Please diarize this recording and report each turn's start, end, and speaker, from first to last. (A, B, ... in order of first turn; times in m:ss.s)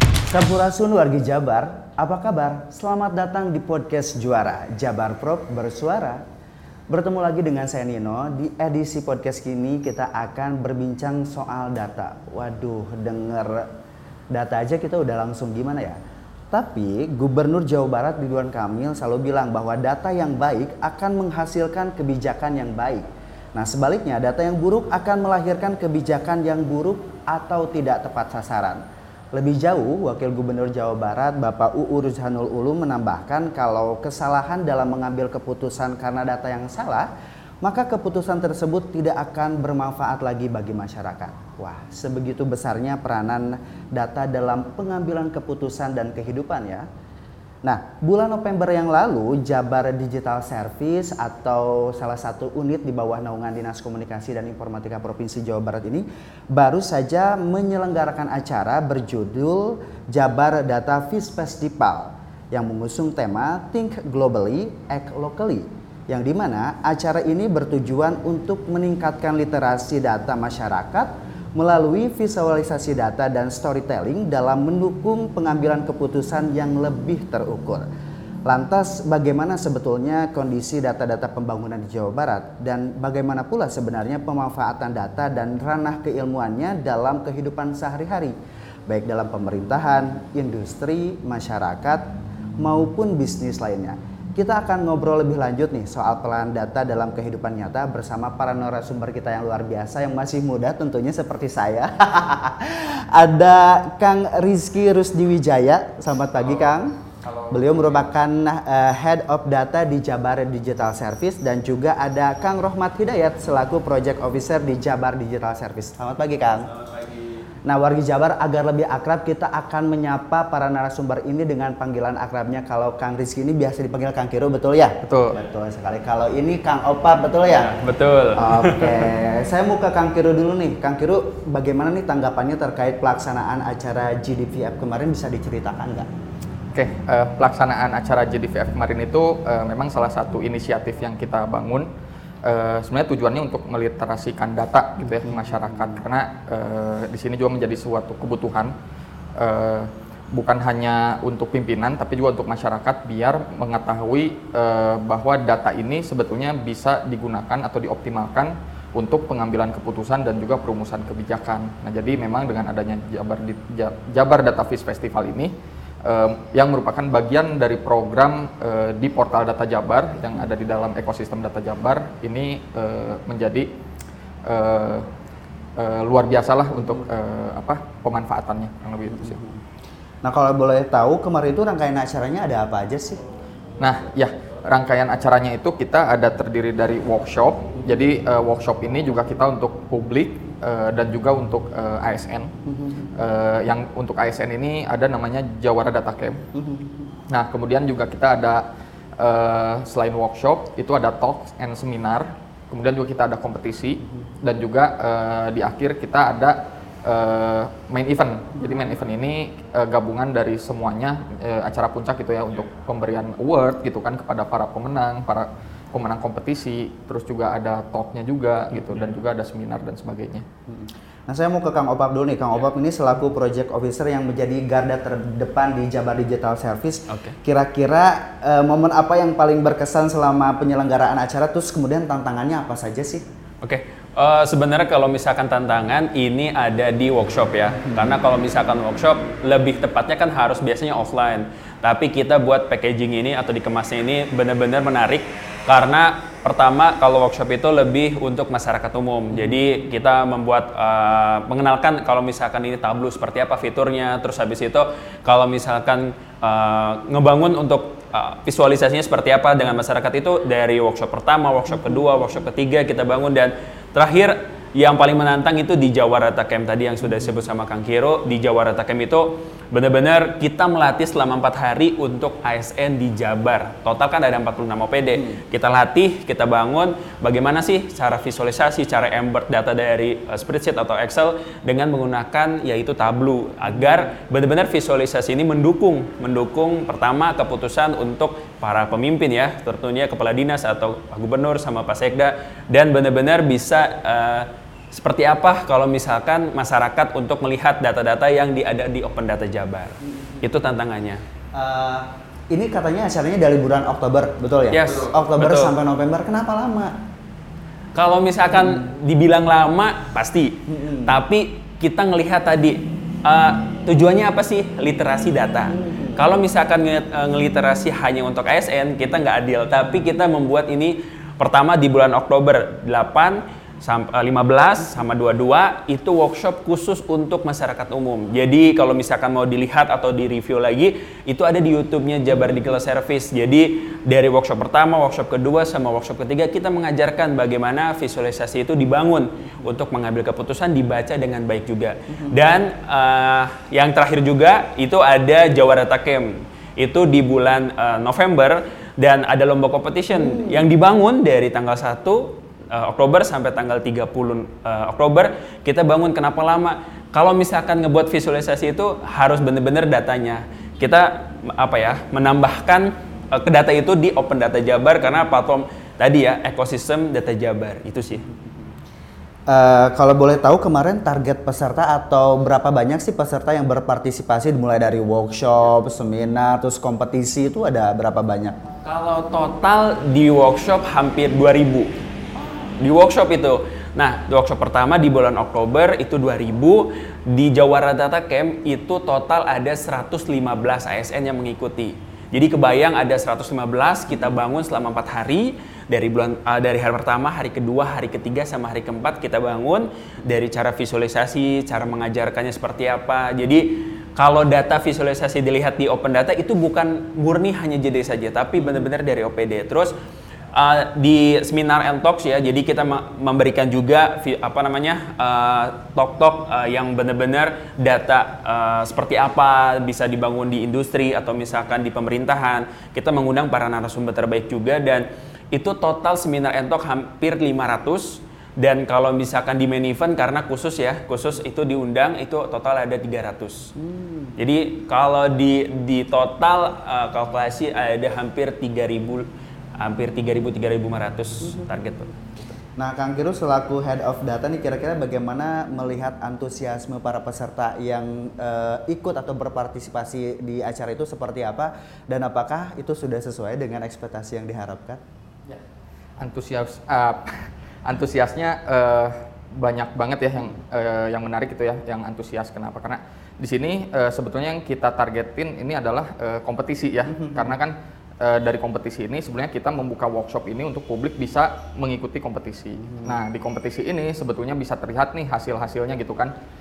0:00.3-0:06.2 A
0:06.9-0:13.7 A
0:14.3-0:16.0 A
0:16.5-0:28.8 A
0:29.3-0:37.1 A
0:37.6-0:46.8 A
0:47.6-1:17.8 A
1:18.4-1:28.3 A
1:28.9-1:32.1 A
1:32.6-1:56.7 A
1:47.2-1:48.1 B
1:56.7-1:57.4 C
1:57.6-2:07.8 A
2:05.0-2:05.4 B
2:07.5-2:09.0 C
2:08.3-2:16.1 A
2:16.7-2:21.9 B
2:22.4-2:28.7 B
2:25.2-2:25.9 A
2:29.4-2:45.5 B
2:46.0-2:53.7 B
2:54.4-2:55.1 B
2:55.8-2:59.4 B
2:59.1-2:59.6 A
3:00.2-3:03.2 A
3:03.8-3:12.5 B
3:12.6-3:13.1 A
3:13.2-3:16.4 B
3:16.5-3:17.0 A
3:17.3-3:18.6 B
3:19.2-3:40.4 B
3:40.7-3:53.2 A
3:47.1-3:47.4 C
3:53.6-5:01.2 C
5:00.1-5:00.4 A
5:01.5-5:07.0 A
5:04.7-5:05.7 C
5:07.9-6:08.2 C
5:10.7-5:11.1 A
5:15.7-5:16.2 A
6:09.5-6:18.6 A
6:18.8-6:21.9 C
6:22.8-6:49.9 C
6:50.5-7:13.7 C
7:13.8-7:14.3 A
7:14.4-7:22.5 C
7:22.8-7:35.0 A
7:36.2-7:56.3 B
7:47.2-7:47.5 A